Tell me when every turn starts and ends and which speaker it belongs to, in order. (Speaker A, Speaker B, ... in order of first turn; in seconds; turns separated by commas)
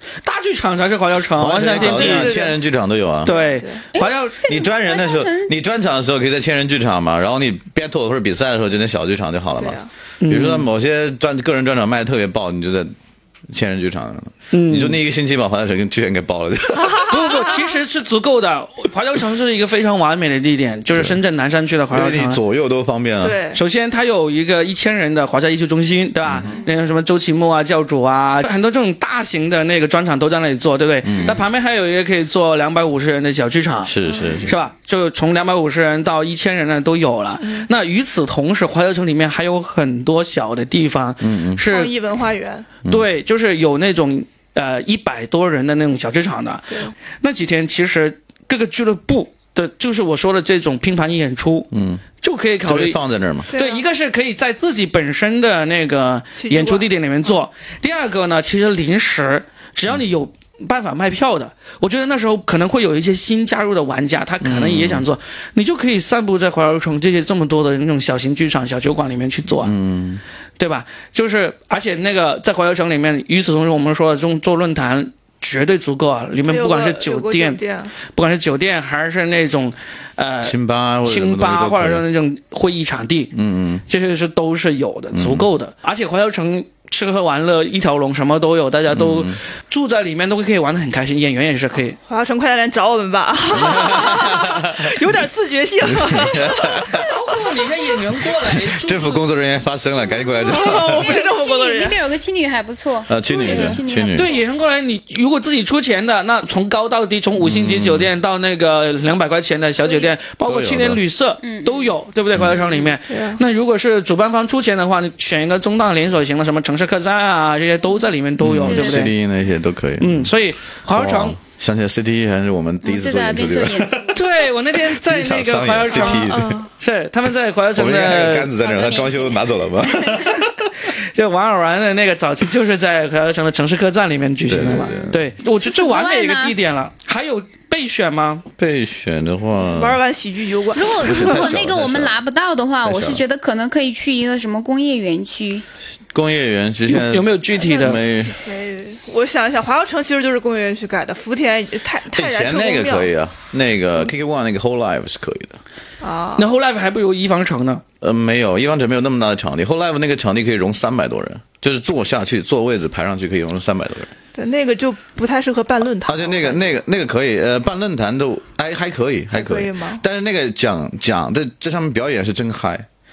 Speaker A: 0.2-2.3, Speaker B: 1.4-3.3, Speaker C: 1.7-2.6, Speaker C: 3.2-3.8, Speaker A: 3.2-4.4, Speaker D: 3.9-5.5, Speaker B: 4.5-12.9, Speaker C: 9.6-9.9, Speaker A: 10.2-10.7, Speaker B: 13.5-17.3, Speaker A: 14.5-15.0, Speaker C: 16.7-17.7, Speaker A: 17.1-22.4, Speaker B: 20.9-21.2, Speaker B: 21.9-23.4, Speaker C: 23.2-23.6, Speaker A: 23.5-41.9, Speaker B: 26.2-26.5, Speaker B: 31.0-31.4, Speaker D: 31.1-31.4, Speaker B: 33.8-34.6, Speaker C: 34.0-34.4, Speaker C: 37.4-37.7, Speaker B: 41.2-41.6, Speaker C: 41.6-42.7, Speaker A: 42.9-53.0, Speaker B: 51.7-52.0, Speaker B: 52.6-53.5, Speaker C: 53.5-53.8, Speaker A: 53.5-69.7, Speaker C: 56.4-56.9, Speaker B: 64.4-65.0, Speaker B: 69.6-70.2, Speaker A: 70.6-83.3, Speaker C: 76.5-78.0, Speaker B: 80.4-82.0, Speaker B: 83.3-83.8, Speaker A: 83.9-92.0, Speaker B: 85.1-85.5, Speaker B: 88.9-89.4, Speaker C: 92.0-97.2, Speaker B: 93.5-95.0, Speaker B: 95.8-97.1, Speaker A: 96.9-99.2, Speaker B: 98.7-101.1, Speaker C: 100.4-102.0, Speaker D: 100.5-104.4, Speaker B: 103.1-104.3, Speaker C: 103.4-103.8, Speaker A: 104.1-119.1, Speaker B: 107.4-108.1, Speaker D: 109.8-110.1, Speaker B: 110.5-111.0, Speaker D: 111.4-111.9, Speaker C: 113.1-113.4, Speaker B: 118.4-120.3, Speaker D: 118.6-119.0, Speaker A: 120.0-121.4, Speaker B: 120.9-124.2, Speaker D: 122.8-124.2, Speaker A: 124.1-128.5, Speaker B: 124.7-126.6, Speaker C: 125.9-126.7, Speaker B: 127.7-130.7, Speaker D: 128.6-130.4, Speaker A: 130.8-138.4, Speaker B: 134.5-135.2, Speaker D: 134.7-136.6, Speaker B: 138.6-140.0, Speaker C: 139.6-141.5, Speaker D: 140.7-145.7, Speaker B: 140.8-142.2, Speaker B: 142.8-143.2, Speaker B: 146.1-148.4, Speaker A: 146.9-148.0, Speaker C: 147.5-153.1, Speaker B: 152.1-155.6, Speaker C: 156.0-156.5, Speaker A: 156.3-157.8, Speaker B: 158.0-164.1, Speaker C: 164.3-166.7, Speaker B: 166.0-172.9, Speaker C: 169.3-170.0